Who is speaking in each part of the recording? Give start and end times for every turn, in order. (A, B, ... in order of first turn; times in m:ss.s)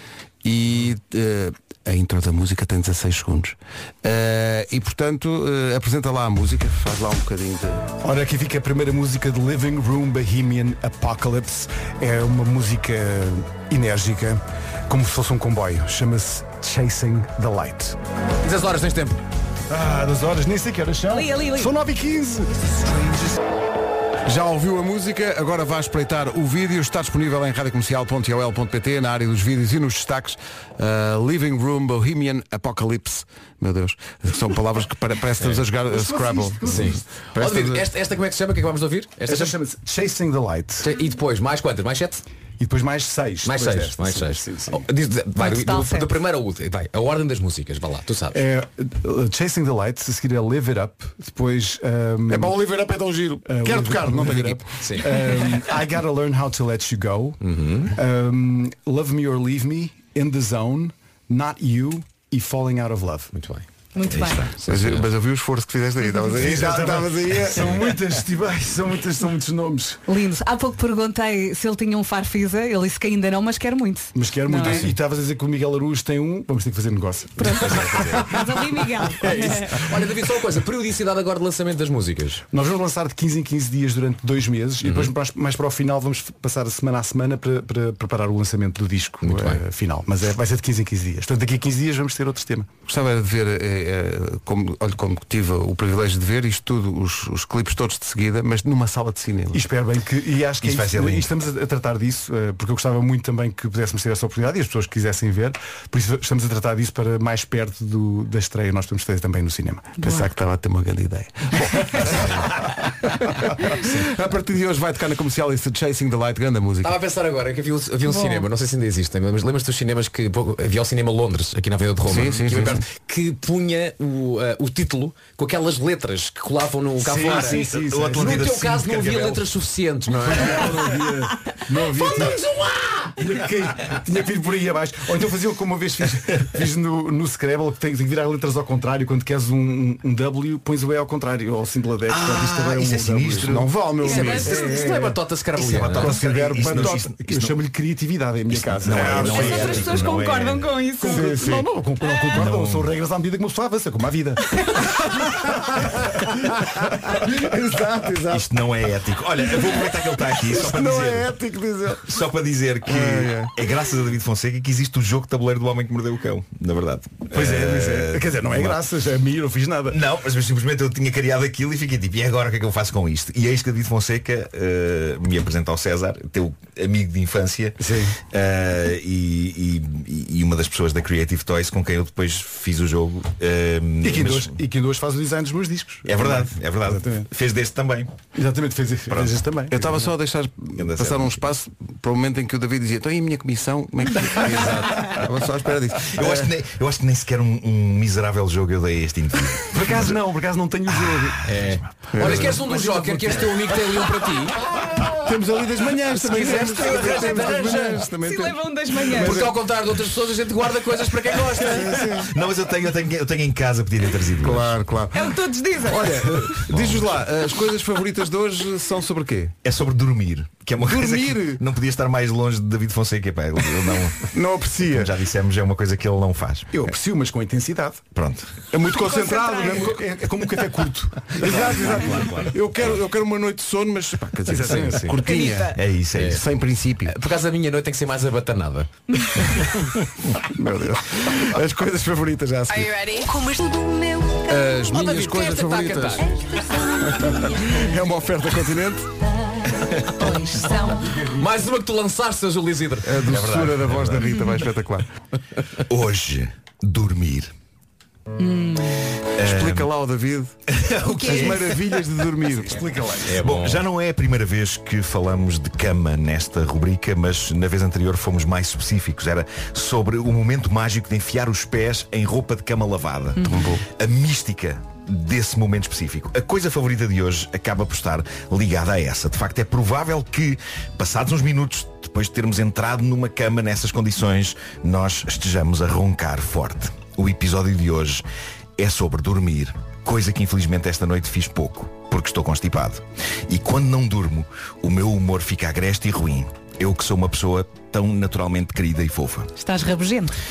0:00.4-0:08.0 A
0:08.0-0:18.0 B
0:18.4-0:19.2 C
0:19.7-0:23.4 B
0:21.1-0:21.7 D
0:24.2-0:37.9 A
0:35.9-0:37.0 B
0:36.6-0:39.6 C
0:39.3-0:40.9 B
0:40.8-0:42.2 C
0:42.6-0:44.9 B
0:43.4-0:48.4 C
0:45.4-0:46.1 D
0:48.3-0:52.6 B
0:52.3-0:55.1 A
0:53.4-0:57.4 B
0:54.8-0:55.2 C
0:57.4-0:57.9 C
0:57.9-1:03.3 B
1:03.3-1:03.6 C
1:04.0-1:04.4 D
1:04.0-1:04.5 E
1:04.5-1:05.1 C
1:04.6-1:08.0 A
1:06.3-1:10.0 B
1:10.1-1:14.9 D
1:14.1-1:18.4 B
1:17.4-1:19.9 D
1:17.8-1:18.1 C
1:19.2-1:22.4 C
1:19.2-1:19.5 B
1:22.5-1:32.7 B
1:24.8-1:25.1 C
1:29.2-1:29.6 C
1:32.9-1:39.6 A
1:39.5-1:50.0 B
1:40.6-1:41.3 E
1:50.0-1:57.0 A
1:56.8-2:07.6 C
1:58.1-1:58.4 D
2:02.0-2:02.8 A
2:07.0-2:08.6 B
2:07.2-2:09.4 E
2:08.2-2:10.8 C
2:10.2-2:12.4 B
2:10.3-2:11.0 A
2:12.0-2:13.1 C
2:13.2-2:23.6 B
2:22.1-2:23.8 E
2:23.4-2:24.7 A
2:24.0-2:26.2 C
2:24.3-2:25.2 B
2:25.6-2:27.6 E
2:26.0-2:30.0 B
2:26.0-2:26.9 A
2:28.5-2:30.7 E
2:29.0-2:29.4 C
2:29.3-2:31.4 D
2:31.0-2:38.1 B
2:31.1-2:31.6 A
2:32.3-2:32.9 E
2:36.3-2:38.4 A
2:38.3-2:41.3 E
2:40.5-2:42.0 A
2:42.0-2:48.8 E
2:42.9-2:43.5 A
2:47.3-2:50.0 B
2:49.9-3:04.6 E
2:57.8-2:58.2 B
3:04.0-3:07.3 B
3:06.0-3:08.1 E
3:08.3-3:10.0 B
3:09.1-3:09.4 E
3:09.7-3:16.5 A
3:10.8-3:11.4 E
3:16.0-3:20.2 E
3:19.7-3:25.3 B
3:20.9-3:21.2 E
3:21.4-3:24.6 C
3:22.1-3:22.7 A
3:25.2-3:29.6 A
3:26.3-3:29.4 D
3:27.0-3:27.4 E
3:29.1-3:32.2 C
3:31.6-3:32.3 A
3:32.2-3:34.7 E
3:34.4-3:39.6 A
3:35.1-3:36.4 D
3:36.6-3:37.2 E
3:39.6-3:46.9 E
3:40.8-3:41.6 A
3:44.3-3:45.1 A
3:46.7-3:48.0 B
3:48.1-3:48.6 E
3:48.7-3:51.6 B
3:48.8-3:49.7 A
3:48.9-3:50.0 D
3:51.3-3:57.1 A
3:51.3-3:53.0 E
3:54.5-3:55.1 B
3:54.6-3:55.1 C
3:55.2-3:55.8 D
3:55.7-3:56.4 E
3:56.1-3:56.4 C
3:57.0-3:58.9 C
3:59.1-3:59.4 D
4:00.5-4:03.0 A
4:02.7-4:04.7 F
4:04.4-4:06.4 A
4:04.9-4:06.4 C
4:06.5-4:07.6 F
4:07.0-4:09.1 A
4:10.1-4:11.3 D
4:11.3-4:14.0 C
4:13.0-4:15.1 A
4:13.4-4:14.2 E
4:15.9-4:17.5 E
4:18.4-4:19.0 D
4:19.4-4:19.9 E
4:19.4-4:20.6 A
4:20.7-4:22.1 E
4:21.2-4:22.9 A
4:22.6-4:23.2 B
4:23.3-4:23.9 C
4:23.3-4:48.3 E
4:33.4-4:33.8 A
4:48.8-4:59.5 E
4:59.6-5:00.3 D